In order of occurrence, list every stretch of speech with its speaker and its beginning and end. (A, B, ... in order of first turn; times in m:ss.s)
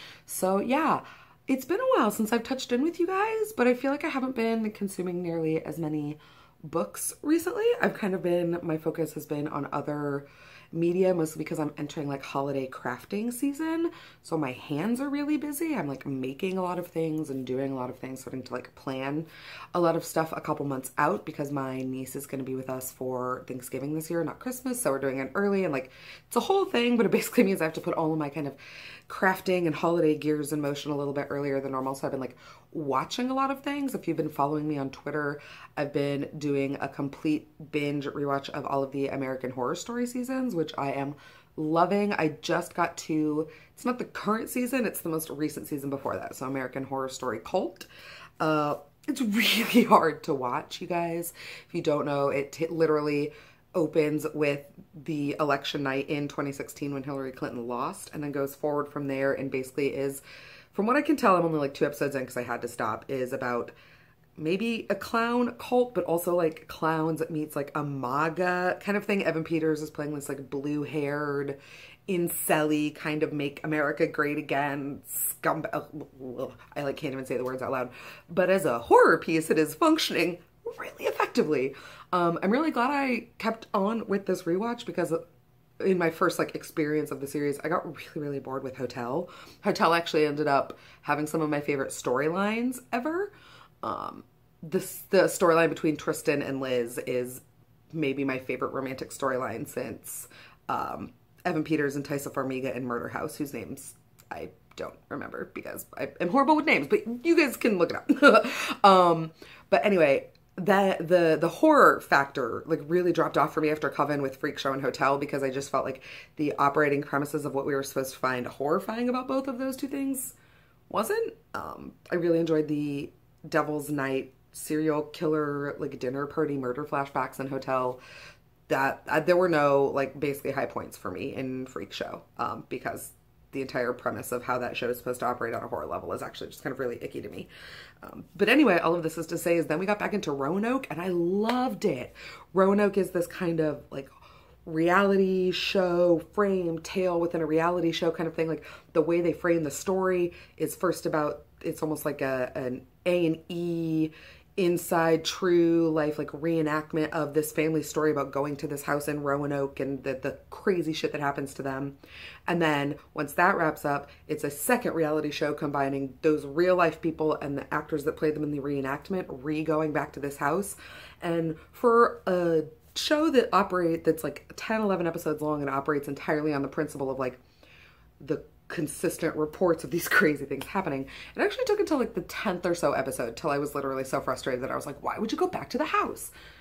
0:00.3-0:28.6 A
0:29.1-0:47.9 A
0:48.4-1:03.7 A
1:04.4-1:25.2 A
1:25.8-1:33.3 A
1:33.8-2:00.3 A
2:00.9-2:08.0 A
2:08.7-2:17.5 A
2:18.0-2:24.1 A
2:24.6-2:42.0 A
2:42.5-2:57.4 A
2:58.2-3:06.3 A